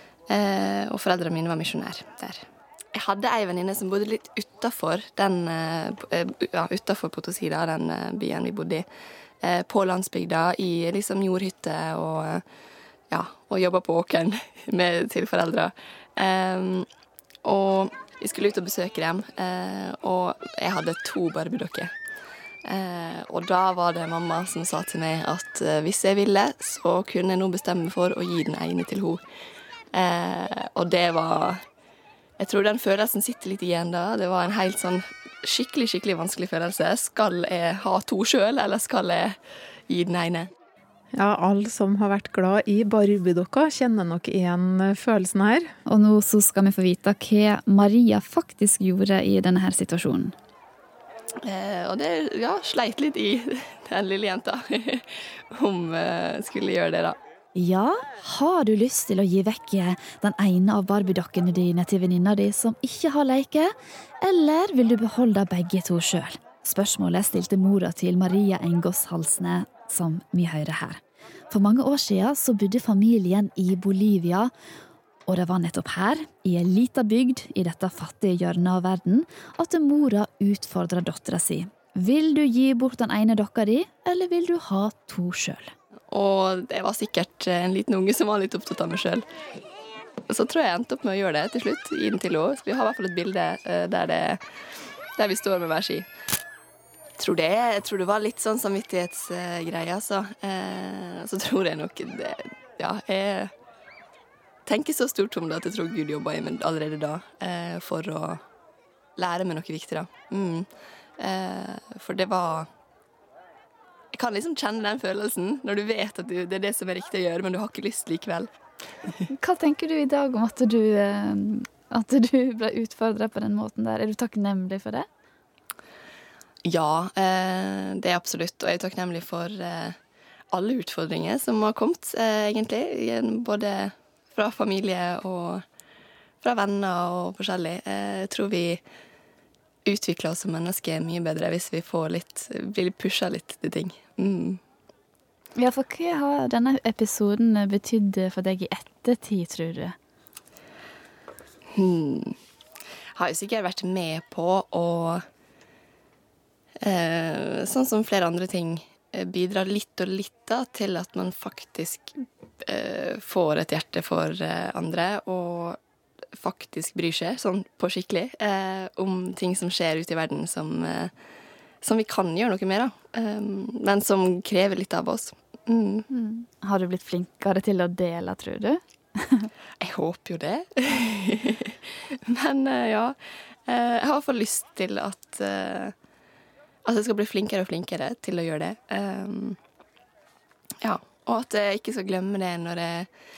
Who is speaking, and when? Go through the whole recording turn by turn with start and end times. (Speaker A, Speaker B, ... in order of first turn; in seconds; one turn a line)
Speaker A: 0.3-8.8
Speaker A: 9.4-12.4
Speaker A: 13.1-16.9
Speaker A: 17.4-21.9
Speaker A: 22.6-29.2
Speaker A: 29.9-31.6
Speaker A: 32.4-39.4
Speaker A: 39.9-40.5
Speaker B: 41.1-45.7
Speaker C: 45.9-50.3
Speaker A: 51.4-57.2
Speaker C: 57.5-74.5
Speaker C: 75.3-85.7
Speaker A: 86.1-89.2
Speaker A: 90.3-96.1
Speaker A: 97.2-103.5
Speaker A: 104.7-108.4
Speaker A: 109.2-110.7
Speaker A: 111.2-112.7
Speaker A: 114.1-118.5
Speaker C: 119.3-125.1
Speaker A: 126.6-130.0
Speaker A: 130.5-135.6
Speaker A: 136.4-138.8
Speaker A: 139.8-144.6
Speaker C: 145.6-149.9
Speaker A: 151.7-152.3
Speaker A: 153.2-155.2
Speaker A: 156.8-165.8
Speaker A: 166.3-171.1
Speaker A: 171.8-176.1
Speaker C: 176.1-179.5
Speaker A: 179.8-185.9
Speaker A: 186.8-189.6
Speaker A: 190.8-193.1